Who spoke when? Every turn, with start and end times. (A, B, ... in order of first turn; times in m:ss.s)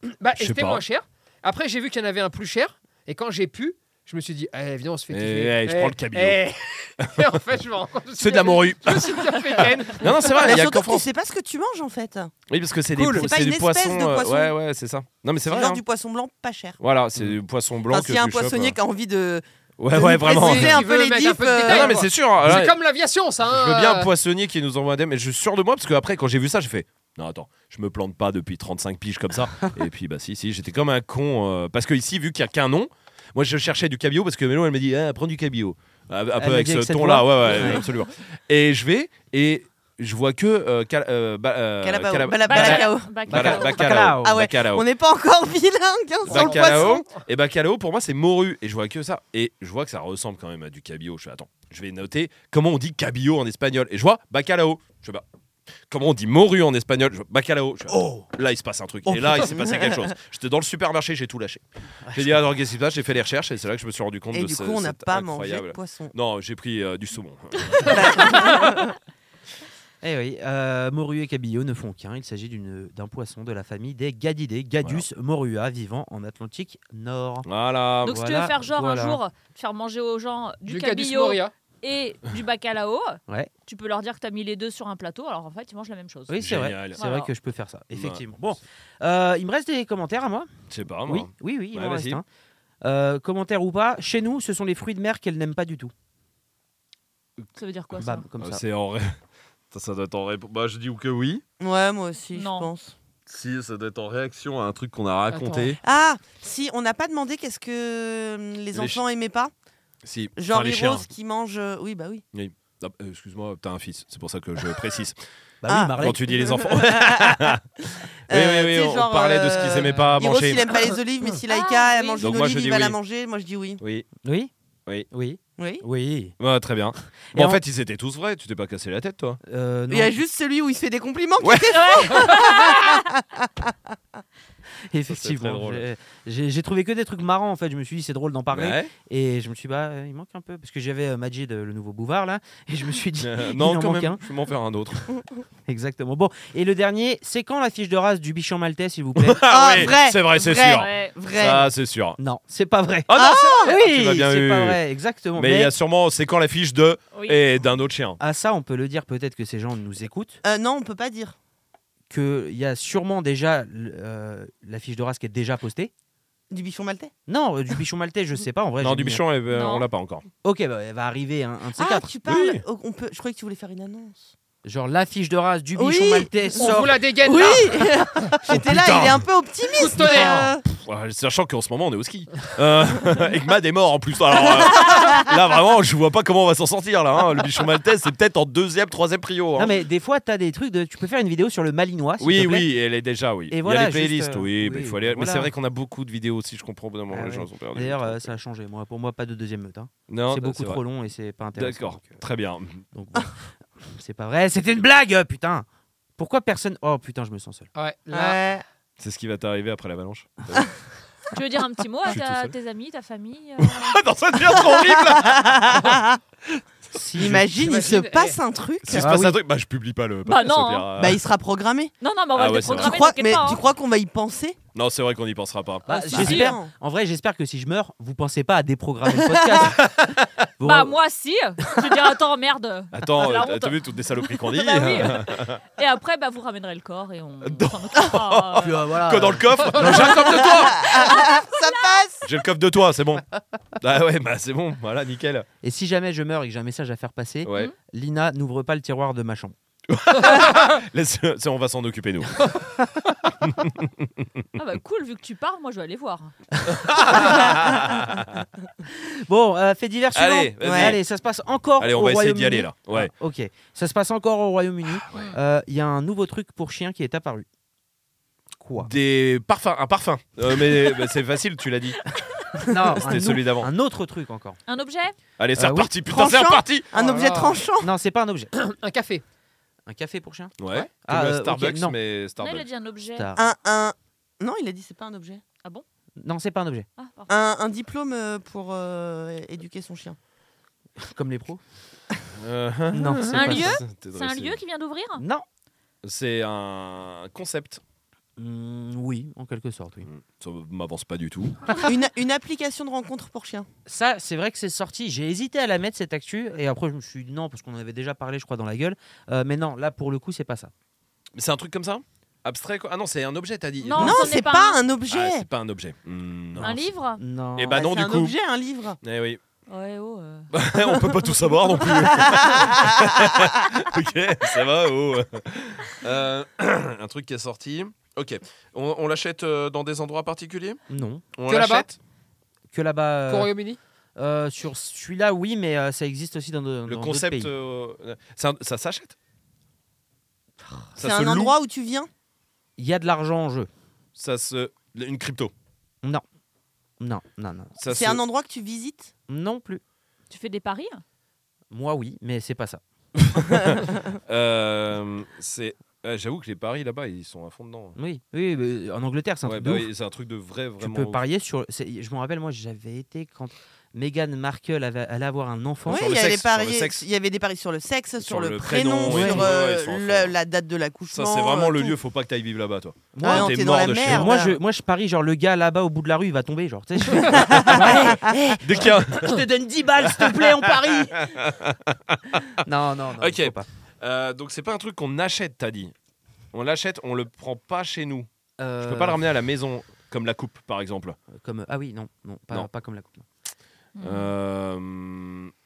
0:00.2-0:10.2 A
0:00.4-0:00.8 B
0:05.1-0:06.4 B
0:08.2-0:11.1 B
0:10.3-0:12.3 C
0:12.5-0:15.8 B
0:13.0-0:13.3 A
0:13.1-0:14.5 C
0:15.5-0:16.8 C
0:16.8-0:18.8 B
0:17.9-0:22.0 C
0:19.8-0:20.8 B
0:20.2-0:24.1 A
0:21.6-0:22.7 B
0:23.5-0:44.8 B
0:36.4-0:37.8 D
0:41.8-0:43.6 C
0:42.4-0:43.8 E
0:43.3-0:44.4 D
0:44.2-0:47.0 C
0:46.3-0:47.1 A
0:46.3-0:55.2 B
0:55.9-1:08.4 B
0:57.9-0:58.2 D
0:59.4-1:00.0 C
1:02.0-1:02.4 D
1:04.3-1:06.1 C
1:07.8-1:08.9 C
1:10.0-1:17.5 D
1:17.4-1:18.2 B
1:18.0-1:26.4 E
1:18.1-1:19.2 D
1:20.7-1:21.5 A
1:26.3-1:30.5 D
1:26.4-1:27.0 B
1:27.0-1:27.3 E
1:27.9-1:28.2 B
1:30.7-1:32.2 B
1:31.1-1:32.2 D
1:32.8-1:35.9 D
1:37.5-1:38.2 E
1:37.9-1:38.6 D
1:38.4-1:39.2 B
1:39.7-1:41.4 B
1:41.6-1:42.9 C
1:42.3-1:42.7 E
1:43.3-1:45.8 B
1:45.3-1:45.8 A
1:45.8-1:49.5 C
1:48.7-1:49.0 B
1:50.0-1:51.1 B
1:50.4-1:52.2 C
1:52.3-1:55.2 B
1:55.6-1:56.2 D
1:55.6-1:57.5 C
1:56.0-1:57.6 B
1:58.3-2:00.7 B
1:58.3-2:03.8 C
2:01.5-2:02.3 E
2:02.2-2:03.0 B
2:03.8-2:04.1 B
2:04.2-2:04.5 D
2:05.1-2:06.3 D
2:05.6-2:05.8 C
2:06.4-2:09.4 B
2:07.3-2:07.6 D
2:09.4-2:10.2 D
2:09.9-2:13.8 C
2:11.4-2:12.0 B
2:11.7-2:13.0 E
2:14.9-2:24.2 D
2:15.1-2:15.8 B
2:18.5-2:18.9 B
2:23.2-2:25.1 B
2:25.7-2:29.9 D
2:29.2-2:32.2 B
2:29.5-2:31.7 C
2:30.7-2:31.2 E
2:32.2-2:35.7 D
2:33.1-2:34.8 B
2:33.1-2:33.7 C
2:35.4-2:38.2 B
2:37.1-2:37.4 E
2:38.2-2:40.4 D
2:40.4-2:41.4 C
2:42.1-2:45.9 D
2:46.5-2:47.1 C
2:47.3-2:49.2 D
2:48.8-2:50.3 B
2:49.5-2:49.8 E
2:50.4-2:52.1 D
2:51.8-2:54.3 C
2:52.2-2:52.6 B
2:54.6-2:57.5 D
2:55.8-3:00.6 C
2:56.6-2:57.9 A
2:58.5-2:59.2 B
2:59.7-3:00.5 A
3:00.6-3:09.8 B
3:09.6-3:12.7 D
3:12.2-3:18.3 B
3:13.5-3:15.5 D
3:17.1-3:22.2 D
3:20.1-3:20.8 B
3:21.6-3:22.8 B
3:22.9-3:25.6 D
3:26.2-3:27.7 D
3:27.7-3:28.4 A
3:28.1-3:28.6 C
3:29.0-3:30.7 B
3:31.3-3:34.0 E
3:32.1-3:32.5 B
3:33.6-3:35.8 B
3:34.7-3:36.2 C
3:36.9-3:37.5 D
3:37.2-3:39.2 C
3:37.5-3:38.4 A
3:38.8-3:41.2 B
3:38.9-3:39.4 D
3:40.2-3:40.9 E
3:41.0-3:41.9 C
3:42.0-3:43.6 E
3:42.3-3:43.0 B
3:42.7-3:44.6 C
3:44.7-3:45.9 B
3:45.8-3:49.9 D
3:45.9-3:46.6 E
3:46.1-3:46.7 C
3:49.1-3:49.7 C
3:49.8-3:50.2 B
3:50.6-3:51.0 D
3:50.6-3:58.8 E
3:52.9-3:55.6 B
3:57.4-4:00.9 B
3:58.6-4:00.1 D
3:59.6-4:00.1 A
4:00.2-4:02.0 E
4:00.3-4:02.2 C
4:02.2-4:03.2 B
4:03.8-4:05.5 B
4:05.6-4:09.5 D
4:07.4-4:07.7 B
4:09.9-4:12.5 B
4:13.4-4:14.2 B
4:14.6-4:16.3 E
4:16.6-4:18.4 B
4:17.1-4:17.6 D
4:18.9-4:27.4 D
4:20.1-4:21.0 B
4:20.6-4:21.0 C
4:21.8-4:23.1 B
4:25.1-4:25.3 B
4:28.6-4:28.9 D
4:28.8-4:32.0 B
4:32.6-4:34.6 D
4:32.7-4:33.7 B
4:34.7-4:35.1 E
4:35.4-4:36.9 B
4:35.6-4:35.9 D
4:36.1-4:37.9 C
4:36.9-4:37.6 A
4:37.8-4:38.5 D
4:38.5-4:39.2 A
4:39.8-4:42.0 D
4:40.6-4:42.7 B
4:42.4-4:43.3 E
4:43.2-4:43.5 D
4:43.4-4:45.4 C
4:46.2-4:46.9 D
4:47.0-4:47.3 E
4:47.3-4:50.2 C
4:51.0-4:51.6 D
4:52.4-4:54.6 B
4:52.9-4:53.8 D
4:53.3-4:55.2 E
4:55.2-4:55.4 D
4:56.0-4:57.8 B
4:58.4-5:00.1 D
5:00.0-5:01.8 B
5:01.8-5:03.7 C
5:03.8-5:10.7 D
5:11.3-5:14.3 B
5:13.8-5:14.8 E
5:14.0-5:15.4 C
5:15.1-5:16.9 B
5:16.6-5:17.2 E
5:16.6-5:17.9 D
5:17.6-5:18.4 B
5:17.7-5:19.0 C
5:19.0-5:19.4 B
5:19.7-5:20.5 E
5:20.5-5:30.8 B
5:21.8-5:23.3 C
5:30.9-5:31.2 D
5:31.4-5:32.0 B
5:31.5-5:31.9 A
5:32.7-5:33.5 D
5:33.3-5:33.8 A
5:34.2-5:37.5 D
5:36.8-5:39.1 B
5:41.0-5:41.5 B
5:41.0-5:42.1 C
5:42.8-5:43.7 D
5:44.2-5:45.5 B
5:47.0-5:47.8 D
5:47.8-5:48.2 B
5:47.9-5:49.1 C
5:49.3-5:49.8 D
5:50.3-5:51.0 E
5:51.7-5:52.8 D
5:53.2-5:58.0 B
5:58.0-5:59.9 D
5:59.4-6:01.2 B
6:00.8-6:06.1 D
6:05.8-6:07.0 B
6:05.9-6:12.0 C
6:08.2-6:10.3 B
6:09.0-6:09.5 D
6:11.1-6:14.3 B
6:13.1-6:21.3 D
6:13.2-6:14.6 C
6:17.2-6:18.6 C
6:17.6-6:18.0 B
6:18.6-6:19.4 B
6:20.0-6:22.6 B
6:22.6-6:23.6 D
6:23.2-6:25.9 B
6:26.5-6:28.3 B
6:28.6-6:29.2 D
6:28.8-6:31.2 B
6:31.3-6:33.2 D
6:34.0-6:34.3 E
6:34.0-6:35.5 B